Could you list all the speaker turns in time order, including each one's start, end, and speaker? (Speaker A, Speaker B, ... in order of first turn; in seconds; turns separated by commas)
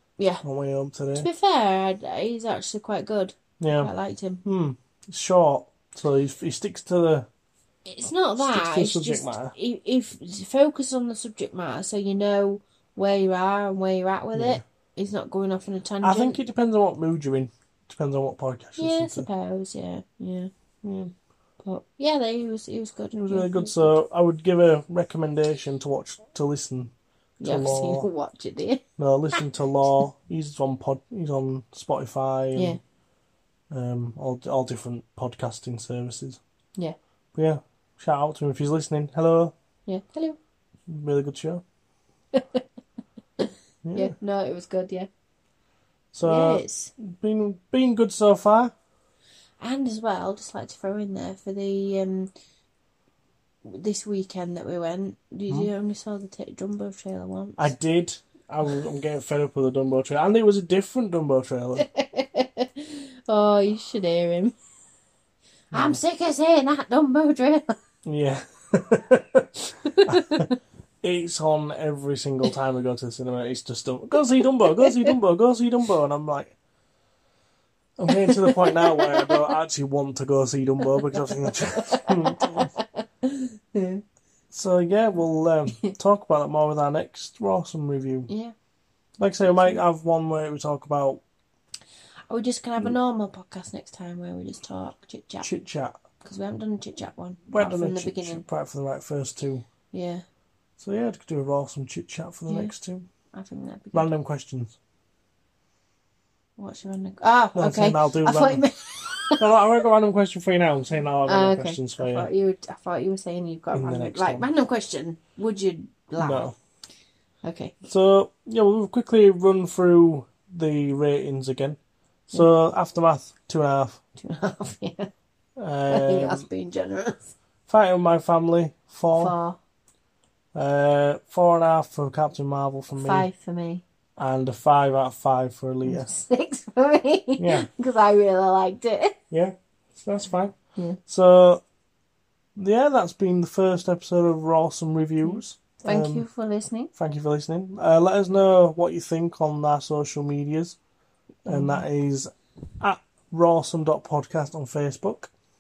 Speaker A: 0.2-0.4, Speaker B: 0.4-1.3, Speaker A: 1.1-4.4, Speaker B: 3.6-3.9, Speaker B: 4.4-7.3, Speaker A: 7.9-16.4, Speaker B: 8.4-9.5, Speaker B: 14.3-14.6, Speaker B: 16.0-19.3, Speaker A: 18.8-20.5, Speaker B: 20.8-21.1, Speaker A: 21.6-23.9, Speaker B: 23.2-28.1, Speaker A: 27.4-28.8, Speaker B: 29.0-32.8, Speaker A: 32.5-32.8, Speaker B: 33.7-36.4, Speaker B: 37.4-39.5, Speaker A: 39.9-40.4, Speaker B: 40.9-41.6, Speaker A: 42.3-42.6, Speaker A: 43.4-45.1, Speaker B: 43.8-44.1, Speaker B: 46.1-48.7, Speaker A: 46.2-46.9, Speaker A: 49.6-52.3, Speaker A: 53.6-57.7, Speaker B: 57.6-61.9, Speaker A: 61.8-64.5, Speaker A: 65.7-67.8, Speaker B: 65.7-66.0, Speaker B: 68.0-70.5, Speaker A: 69.8-70.5, Speaker B: 71.0-76.6, Speaker A: 74.6-75.1, Speaker B: 78.0-82.7, Speaker A: 78.1-79.5, Speaker A: 80.9-84.0, Speaker B: 84.5-88.3, Speaker A: 88.3-88.5, Speaker B: 89.2-91.2, Speaker A: 89.4-89.8, Speaker A: 92.3-95.5, Speaker B: 95.4-96.0, Speaker A: 96.2-98.5, Speaker B: 97.5-99.6, Speaker A: 99.9-100.2, Speaker B: 100.8-103.1, Speaker A: 102.5-102.7, Speaker A: 103.3-104.1, Speaker B: 103.9-104.8, Speaker A: 106.6-109.5, Speaker B: 107.5-108.7, Speaker B: 109.4-112.3, Speaker A: 111.3-116.5, Speaker B: 113.7-114.5, Speaker B: 116.2-116.5, Speaker A: 117.4-117.8, Speaker B: 117.8-121.8, Speaker B: 122.3-124.0, Speaker A: 124.2-125.1, Speaker B: 125.6-126.5, Speaker A: 125.9-127.3, Speaker B: 127.7-129.3, Speaker A: 129.1-129.6, Speaker B: 130.5-133.3, Speaker A: 133.0-133.8, Speaker B: 134.2-136.1, Speaker A: 135.9-139.2, Speaker B: 137.4-137.7, Speaker B: 139.3-140.6, Speaker B: 141.1-141.6, Speaker B: 142.6-146.3, Speaker A: 145.2-146.9, Speaker B: 147.0-150.8, Speaker B: 151.4-155.3, Speaker A: 151.5-151.8